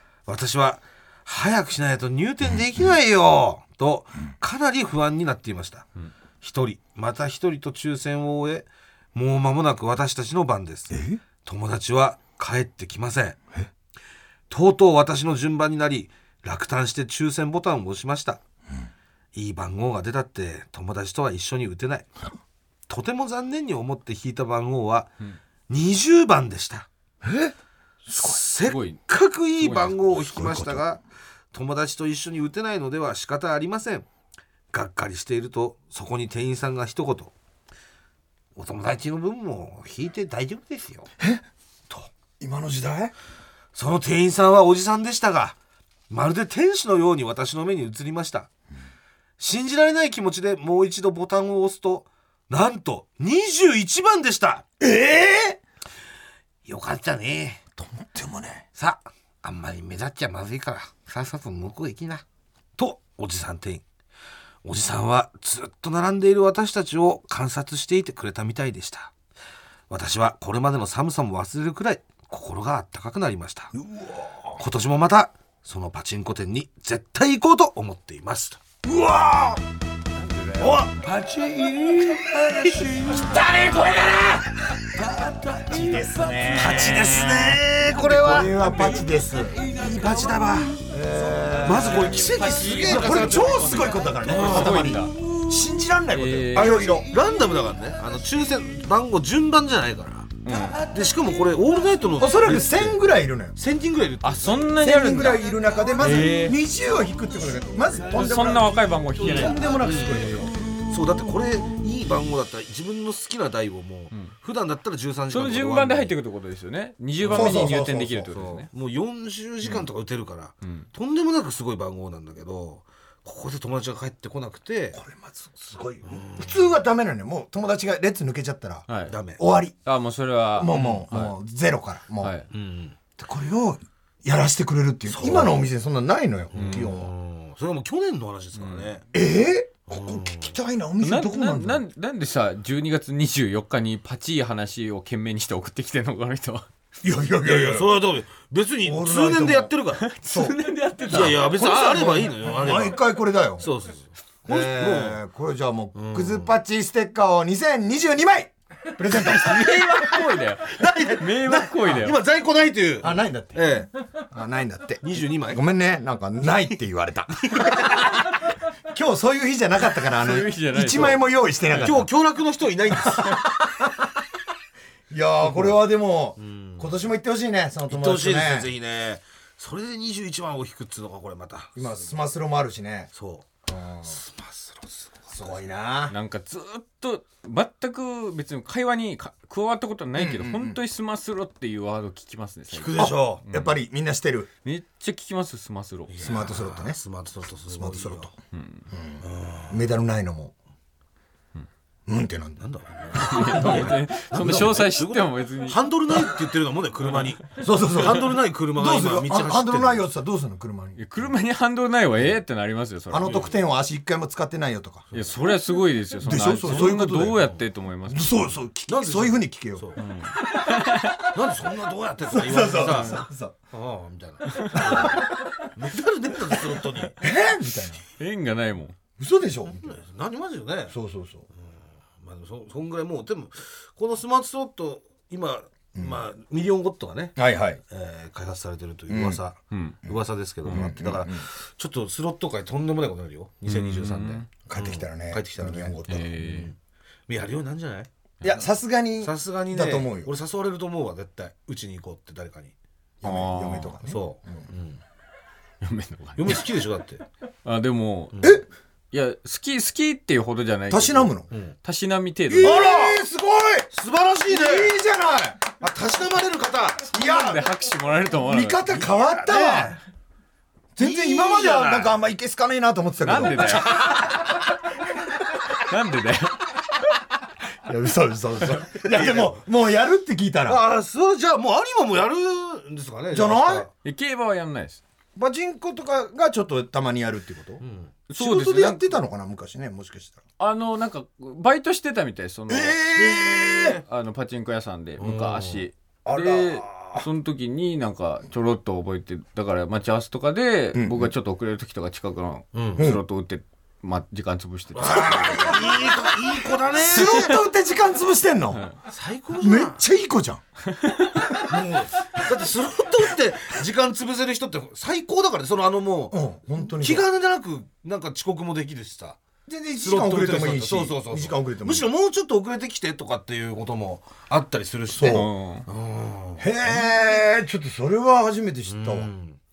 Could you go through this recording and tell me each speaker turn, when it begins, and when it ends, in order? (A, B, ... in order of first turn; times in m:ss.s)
0:00.3-0:05.9 A
0:06.4-0:13.4 A
0:10.9-0:11.2 B
0:14.5-0:18.4 A
0:19.3-0:22.1 A
0:22.9-0:25.1 A
0:25.7-0:26.9 A
0:27.2-0:27.5 B
0:28.0-0:28.4 B
0:28.1-0:31.0 A
0:28.6-0:29.0 C
0:29.6-0:30.0 C
0:30.1-0:30.8 B
0:31.5-0:34.0 A
0:34.7-0:37.3 A
0:38.6-0:41.1 A
0:41.2-0:43.1 B
0:43.7-0:45.6 A
0:46.1-0:48.5 A
0:49.4-0:54.6 A
0:54.8-0:55.6 B
0:56.6-0:57.6 A
0:57.8-0:58.6 B
0:58.8-1:02.2 A
1:02.8-1:03.8 A
1:04.6-1:09.1 A
1:09.9-1:13.7 A
1:13.7-1:14.6 B
1:14.6-1:18.6 A
1:18.8-1:19.6 B
1:20.2-1:20.8 C
1:20.6-1:20.9 A
1:20.6-1:29.7 B
1:22.2-1:23.1 A
1:25.2-1:25.6 A
1:26.5-1:30.8 A
1:30.8-1:37.2 B
1:31.6-1:35.0 A
1:31.8-1:35.2 C
1:36.1-1:36.8 C
1:36.5-1:40.3 A
1:40.4-1:40.8 C
1:40.9-1:43.0 A
1:42.2-1:43.6 B
1:43.6-1:44.7 A
1:44.2-1:45.4 C
1:44.8-1:50.6 B
1:46.0-1:46.6 C
1:48.1-1:49.6 C
1:49.5-1:50.4 A
1:50.9-1:56.1 A
1:55.3-1:58.7 C
1:57.2-1:57.8 A
1:57.3-1:58.3 B
1:58.3-2:05.0 A
2:04.9-2:08.8 B
2:06.1-2:06.7 A
2:08.9-2:09.1 C
2:09.1-2:09.4 A
2:09.4-2:09.8 B
2:09.8-2:11.3 C
2:10.6-2:12.3 B
2:10.7-2:11.0 A
2:12.2-2:12.5 C
2:12.5-2:13.0 A
2:13.2-2:17.1 B
2:15.0-2:15.6 A
2:16.5-2:19.0 A
2:16.5-2:16.9 C
2:18.6-2:18.9 C
2:19.1-2:21.8 B
2:19.9-2:20.5 A
2:21.0-2:26.6 C
2:27.0-2:27.9 B
2:27.4-2:30.0 A
2:28.8-2:29.7 B
2:30.0-2:32.3 C
2:30.2-2:33.7 B
2:31.1-2:35.2 A
2:34.4-2:39.8 B
2:35.9-2:36.6 A
2:39.1-2:42.2 C
2:40.6-2:43.9 A
2:43.0-2:43.6 B
2:44.3-2:48.2 B
2:45.0-2:45.6 A
2:47.4-2:48.2 A
2:48.9-2:52.1 B
2:50.1-2:52.0 C
2:51.7-2:53.5 A
2:53.1-2:54.1 B
2:55.1-2:58.7 B
2:55.5-2:55.8 A
2:56.4-2:56.9 A
2:57.9-3:01.8 A
3:01.8-3:03.1 B
3:03.1-3:03.5 A
3:03.7-3:04.2 B
3:04.0-3:05.6 A
3:05.3-3:06.1 B
3:06.1-3:13.8 C
3:10.2-3:10.8 B
3:12.7-3:13.4 A
3:13.0-3:14.5 B
3:14.6-3:16.2 C
3:16.1-3:18.3 A
3:16.2-3:17.0 B
3:17.7-3:18.3 B
3:18.5-3:18.9 C
3:18.9-3:20.5 B
3:19.2-3:19.8 A
3:22.1-3:22.6 B
3:22.6-3:30.1 A
3:23.1-3:25.8 C
3:23.6-3:23.9 B
3:27.6-3:31.0 B
3:31.0-3:33.5 C
3:33.1-3:35.1 B
3:35.1-3:35.4 A
3:35.1-3:38.4 C
3:36.2-3:37.4 B
3:36.7-3:37.5 A
3:38.1-3:39.9 B
3:38.9-3:40.0 A
3:40.0-3:41.3 C
3:41.3-3:47.2 A
3:42.3-3:43.6 B
3:42.8-3:43.2 C
3:44.5-3:45.1 C
3:44.7-3:45.7 B
3:47.2-3:48.0 B
3:48.2-3:48.9 C
3:49.2-3:49.9 B
3:49.7-3:51.0 A
3:50.9-3:51.4 B
3:52.2-3:57.4 A
3:56.0-3:56.2 B
3:57.4-3:57.8 B
3:57.9-4:06.8 A
3:59.1-3:59.4 B
3:59.7-4:00.0 C
4:00.6-4:00.9 C
4:00.7-4:01.4 B
4:03.6-4:04.5 C
4:04.7-4:06.3 B
4:06.1-4:06.7 C
4:07.3-4:08.1 A
4:08.4-4:10.3 B
4:09.2-4:12.7 A
4:13.2-4:14.6 B
4:13.2-4:14.0 C
4:14.1-4:15.0 A
4:15.8-4:16.6 C
4:16.4-4:17.2 A
4:17.6-4:18.6 C
4:19.1-4:22.7 C
4:20.9-4:21.5 B
4:21.5-4:21.8 A
4:22.5-4:23.9 B
4:22.6-4:23.2 A
4:23.9-4:24.9 A
4:24.5-4:25.6 B
4:25.8-4:27.1 A
4:27.1-4:27.7 B
4:27.1-4:28.8 C
4:28.4-4:30.0 B
4:28.9-4:30.0 A
4:31.0-4:34.3 B
4:31.0-4:32.2 A
4:33.2-4:34.3 C
4:35.6-4:36.6 C
4:37.8-4:40.8 B
4:38.8-4:39.6 A
4:40.6-4:43.9 A
4:43.3-4:43.8 B
4:44.0-4:45.0 C
4:45.4-4:47.8 B
4:47.8-4:48.1 A
4:48.3-4:49.1 C
4:48.4-4:50.4 B
4:50.6-5:06.0 C
4:52.7-4:54.0 B
4:53.2-4:54.0 A
4:55.2-4:55.8 A
4:56.2-4:56.8 B
5:00.9-5:01.3 B
5:02.7-5:03.1 A
5:05.0-5:07.5 A
5:05.2-5:06.0 B
5:07.0-5:08.8 B
5:07.2-5:07.6 C
5:09.1-5:10.0 A
5:09.6-5:10.6 B
5:10.9-5:11.5 C
5:11.6-5:11.8 B
5:11.7-5:19.4 A
5:16.3-5:17.2 B
5:19.6-5:22.1 B
5:20.0-5:27.0 A
5:25.1-5:25.5 B
5:25.2-5:25.9 C
5:26.6-5:29.3 B
5:28.9-5:29.6 A